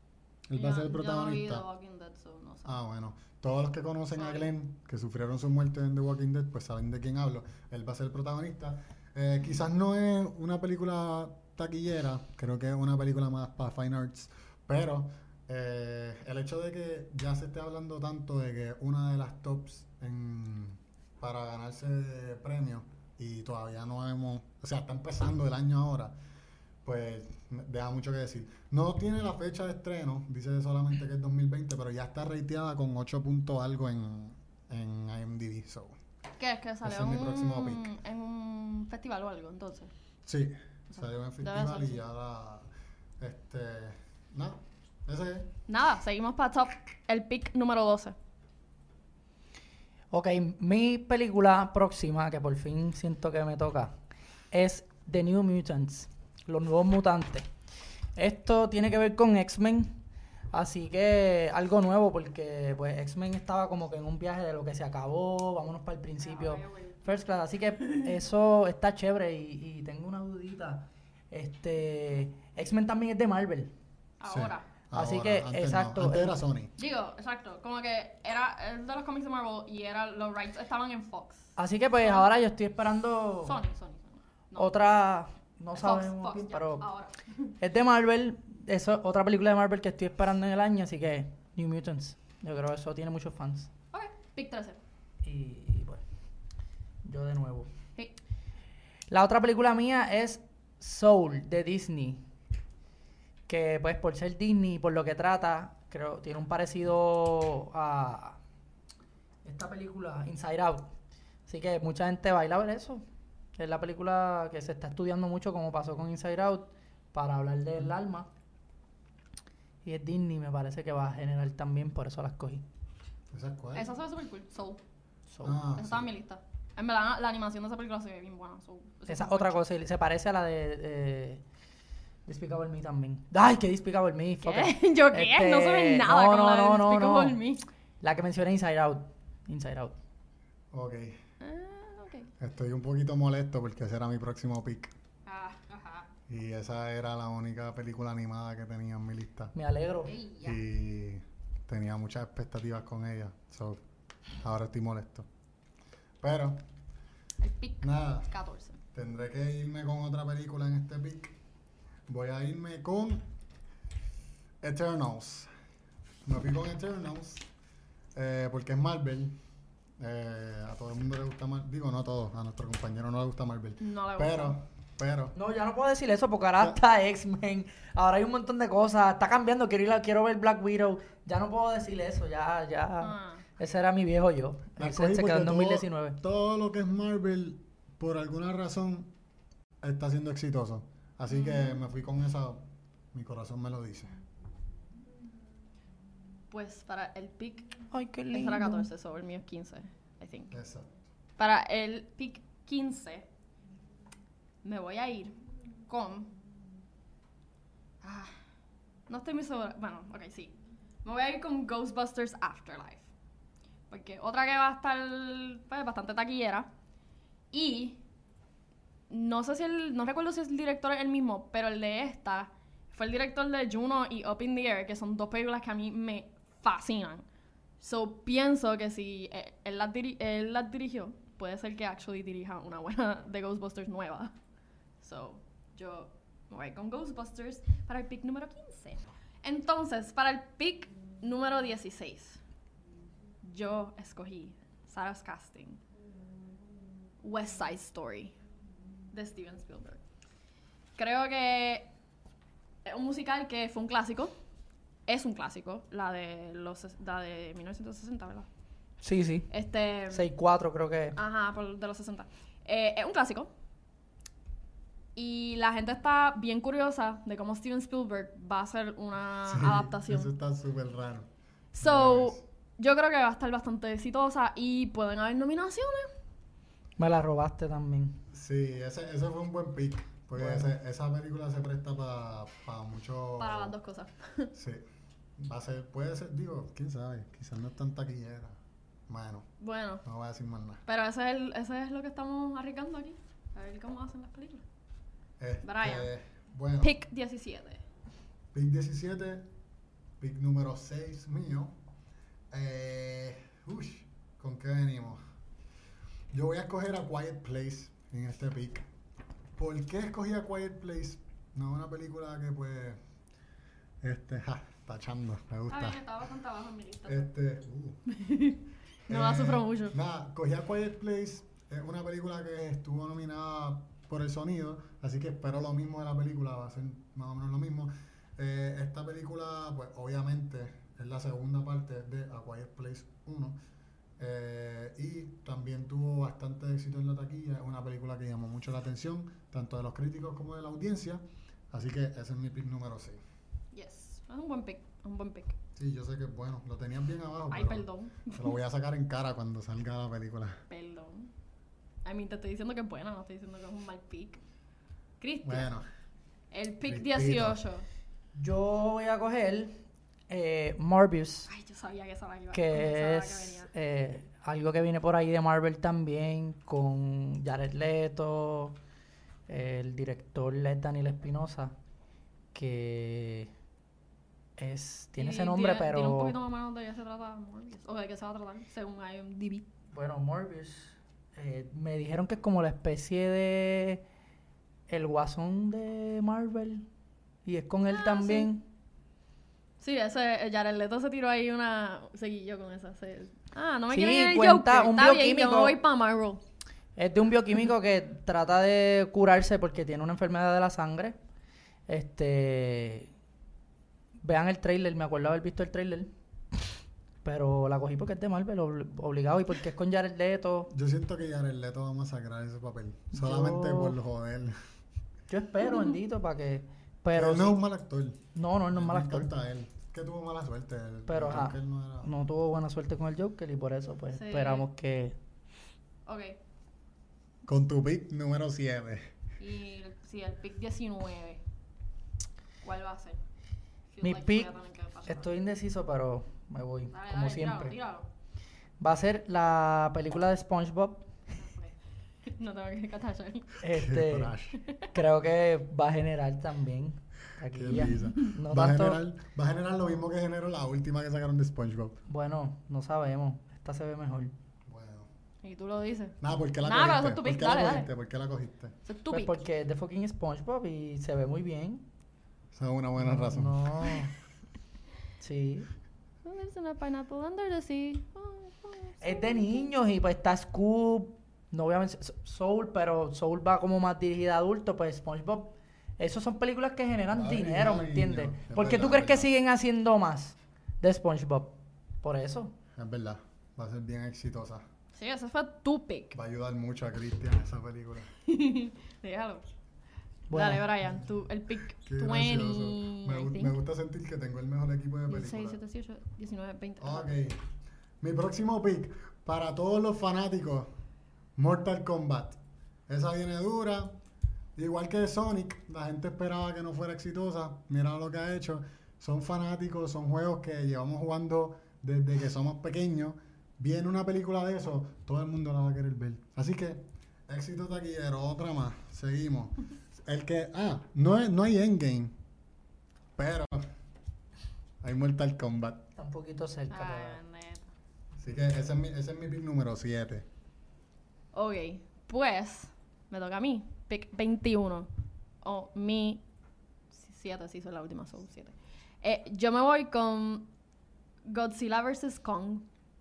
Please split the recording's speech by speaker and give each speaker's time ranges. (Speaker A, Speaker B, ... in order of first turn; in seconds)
Speaker A: 0.5-1.6, 2.6-26.1, 26.8-36.0, 36.8-37.9, 40.3-42.7, 43.2-45.5, 74.3-76.7, 123.3-123.9, 125.4-126.1, 140.7-141.2, 142.4-144.9, 146.3-149.5, 150.4-153.8, 154.4-155.3, 156.2-156.6, 157.8-158.3, 158.9-161.4, 162.1-163.3, 164.6-165.5, 166.2-167.5, 168.1-169.4, 170.0-175.3, 184.8-189.1, 189.8-194.2, 200.5-201.0, 269.5-272.4, 278.3-283.7, 284.5-284.9, 285.4-289.5, 290.0-290.8, 295.4-297.0, 298.5-299.5, 300.2-301.8, 302.5-305.2, 306.3-308.9, 309.6-313.0, 314.0-316.0, 317.1-318.0, 319.1-333.6, 334.2-343.2, 345.8-350.6, 355.4-355.9, 356.8-357.6, 410.7-414.6, 417.1-422.1, 427.5-429.1, 443.7-444.6, 447.5-452.0, 454.7-455.1, 456.2-458.8, 462.5-463.6, 477.1-479.3, 482.8-484.7, 486.1-488.1, 491.8-495.6, 496.8-497.4, 498.0-500.7, 501.4-504.0, 504.6-522.1, 523.2-523.6, 524.8-525.9, 528.2-530.3
Speaker B: 0.6-2.8, 4.2-4.5, 36.4-39.9, 40.9-42.0, 45.7-48.1, 66.2-67.2, 74.2-74.7, 76.8-82.3, 83.5-84.7, 85.8-87.5, 93.9-94.8, 123.8-124.8, 125.7-129.6, 134.4-137.6, 141.4-142.3, 145.3-146.1, 150.1-150.6, 157.4-158.8, 173.8-174.6, 183.0-183.4, 191.3-191.8, 196.5-200.5, 201.4-203.3, 204.6-205.3, 205.9-206.3, 208.0-208.3, 209.1-213.1, 213.9-216.7, 217.5-218.0, 219.1-227.2, 227.8-234.3, 235.0-242.4, 243.4-245.8, 247.2-248.3, 249.1-250.0, 251.0-251.9, 252.8-254.3, 255.1-258.5, 259.5-260.3, 261.2-263.5, 265.2-270.3, 271.8-276.1, 283.4-284.5, 289.6-290.0, 290.9-294.6, 295.6-296.1, 296.8-297.8, 315.7-317.3, 318.1-319.9, 343.7-345.6, 347.5-348.6, 350.7-351.3, 352.1-354.4, 355.2-355.7, 356.5-357.9, 361.5-363.7, 375.2-379.7, 387.9-388.5, 389.8-396.4, 424.1-424.7, 426.1-426.4, 429.4-431.4, 432.6-433.2, 433.9-435.3, 436.9-438.1, 441.4-443.5, 444.6-444.9, 447.8-448.1, 455.4-457.9, 458.9-459.4, 466.2-469.7, 484.9-486.1, 488.2-489.5, 490.3-493.6, 495.1-497.2, 526.7-527.7, 531.3-534.9, 535.4-536.2, 536.9-540.5, 541.3-542.7
Speaker C: 50.1-54.0, 54.5-57.5, 58.2-60.0, 60.5-73.7, 74.9-76.4, 81.6-83.6, 84.6-86.8, 87.6-93.7, 95.2-96.0, 97.0-97.7, 99.1-102.2, 103.5-108.4, 109.4-110.9, 111.5-113.0, 113.6-118.3, 119.8-122.6, 125.3-125.6, 129.1-131.4, 132.3-137.4, 138.0-140.0, 149.6-150.2, 175.3-186.2, 197.9-198.9, 259.0-259.5, 260.1-261.2, 277.0-278.2, 280.4-280.7, 358.4-361.5, 362.5-368.8, 369.5-371.7, 372.5-373.5, 374.6-376.4, 379.9-384.0, 384.9-386.9, 387.4-388.6, 393.9-395.8, 397.0-401.2, 401.9-403.1, 404.2-406.1, 407.2-410.7, 413.1-414.0, 415.3-417.6, 418.4-419.3, 421.1-425.2, 434.0-434.5, 435.1-437.8, 438.8-441.1, 443.6-444.4, 444.9-449.0, 452.1-454.3, 459.1-461.8, 463.0-464.1, 465.2-465.7, 469.0-482.6, 490.3-490.7, 526.0-527.2